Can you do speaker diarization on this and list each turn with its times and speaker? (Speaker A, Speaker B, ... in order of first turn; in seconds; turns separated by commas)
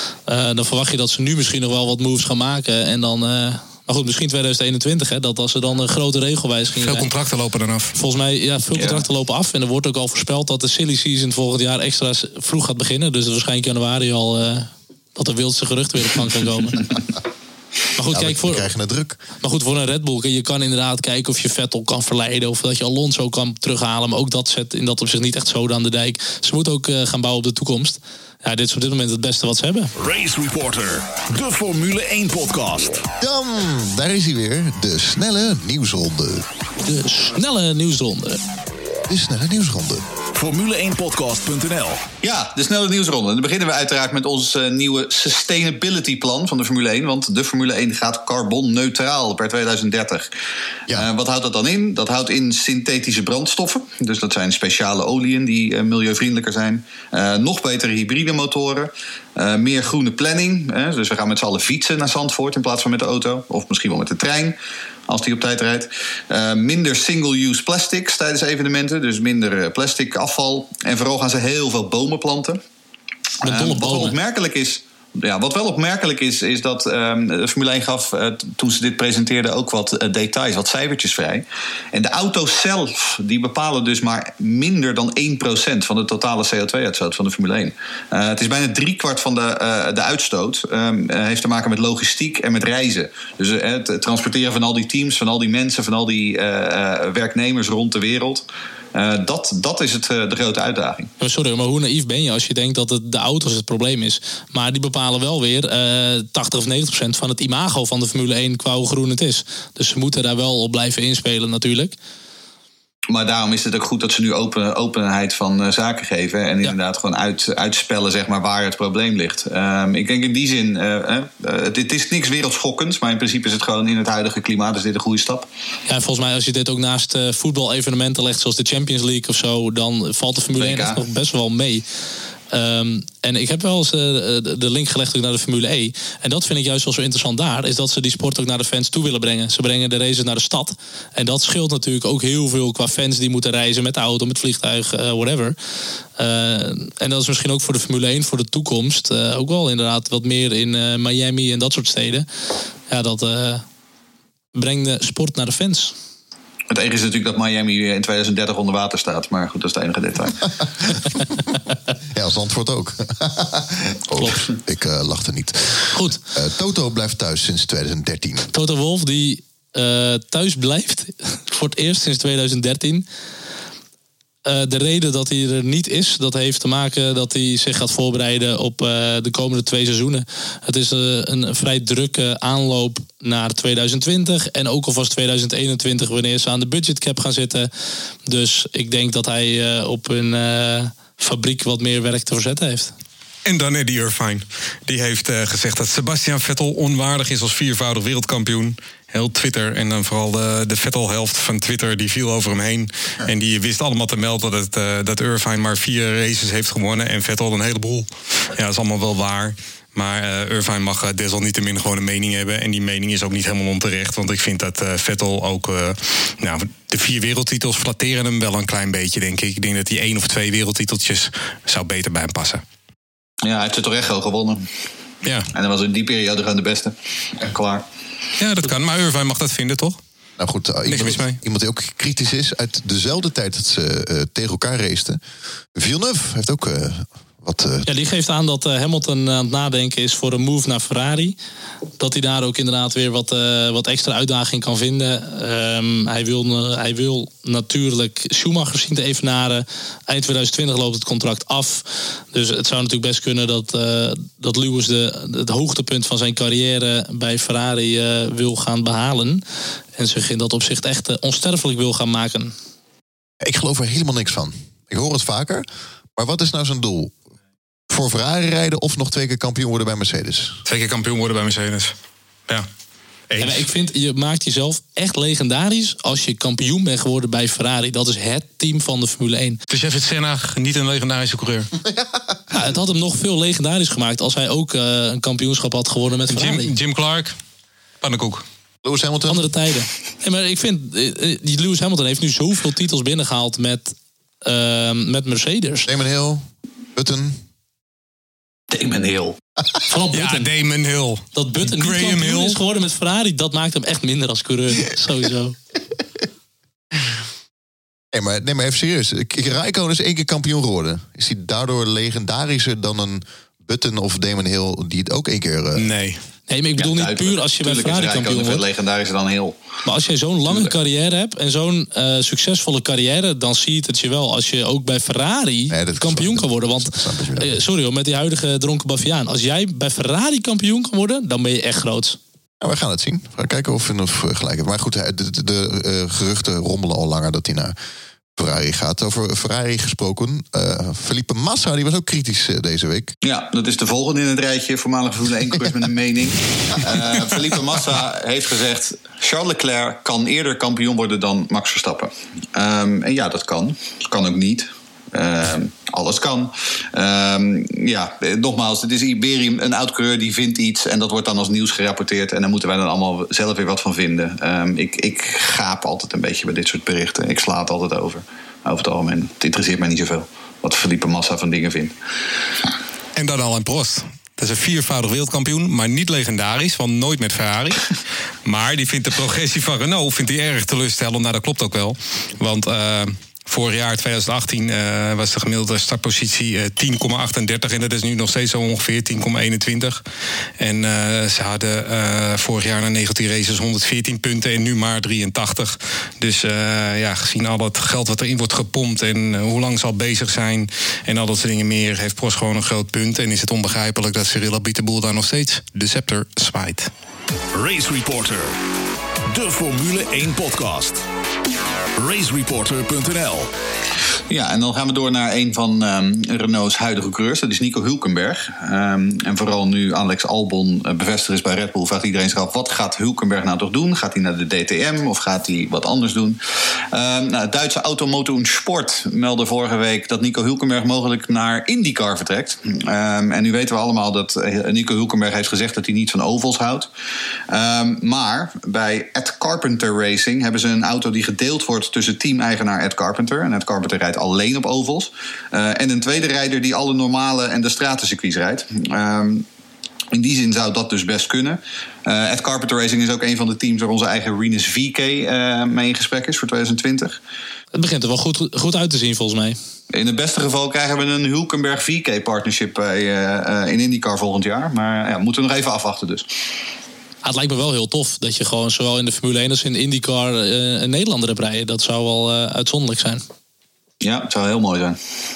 Speaker A: 0.3-7.1, Speaker B: 6.8-8.0, Speaker A: 8.0-16.9, Speaker C: 8.8-9.0, Speaker A: 18.0-18.7, Speaker D: 18.1-19.2, Speaker A: 19.4-29.9, Speaker E: 30.0-33.0, Speaker D: 33.2-36.5, Speaker A: 36.8-38.4, Speaker D: 39.1-40.0, Speaker E: 40.4-42.0, Speaker C: 42.2-50.3, Speaker C: 50.9-64.6, Speaker C: 65.1-72.6, Speaker A: 73.4-74.2, Speaker C: 73.4-101.1, Speaker A: 101.2-112.0, Speaker C: 113.1-125.5, Speaker A: 125.9-131.8, Speaker C: 130.6-131.0, Speaker A: 132.5-145.6, Speaker A: 146.2-152.3, Speaker A: 152.9-153.6, Speaker A: 154.6-155.9, Speaker C: 156.7-160.6, Speaker D: 162.1-168.5, Speaker A: 165.9-166.2, Speaker A: 168.5-173.1, Speaker A: 174.4-187.7, Speaker A: 188.3-192.9, Speaker B: 193.4-222.6, Speaker C: 223.4-224.7, Speaker B: 225.2-225.5, Speaker C: 225.5-227.8, Speaker B: 228.4-230.0, Speaker D: 230.4-235.2, Speaker B: 230.9-231.4, Speaker D: 235.8-237.9, Speaker A: 237.9-241.4, Speaker A: 242.0-259.4, Speaker A: 260.0-262.5, Speaker D: 263.4-265.6, Speaker D: 266.2-267.1, Speaker D: 267.9-270.6, Speaker B: 270.7-271.9, Speaker B: 273.3-273.7, Speaker A: 273.4-279.6, Speaker B: 279.7-281.7, Speaker A: 282.5-286.8, Speaker B: 286.3-287.4, Speaker B: 288.0-288.4, Speaker D: 288.8-289.5, Speaker A: 289.3-295.9, Speaker D: 295.9-297.4, Speaker C: 298.7-299.4, Speaker A: 299.9-300.5, Speaker B: 300.1-302.6, Speaker A: 301.4-305.6, Speaker D: 308.1-315.9, Speaker B: 315.8-316.2, Speaker A: 316.5-318.6, Speaker C: 316.8-319.6, Speaker A: 319.9-332.2, Speaker D: 325.7-327.6, Speaker D: 332.6-337.8, Speaker D: 338.4-343.1, Speaker C: 343.2-371.9, Speaker B: 373.2-377.9, Speaker B: 378.4-390.0, Speaker B: 390.6-406.9, Speaker E: 407.5-408.5, Speaker E: 409.3-411.0, Speaker E: 412.0-413.5, Speaker C: 414.3-426.4, Speaker C: 426.9-436.9, Speaker C: 437.5-449.5, Speaker C: 450.1-457.2, Speaker A: 457.8-459.6, Speaker C: 459.9-466.3, Speaker A: 467.2-473.2, Speaker C: 474.0-475.0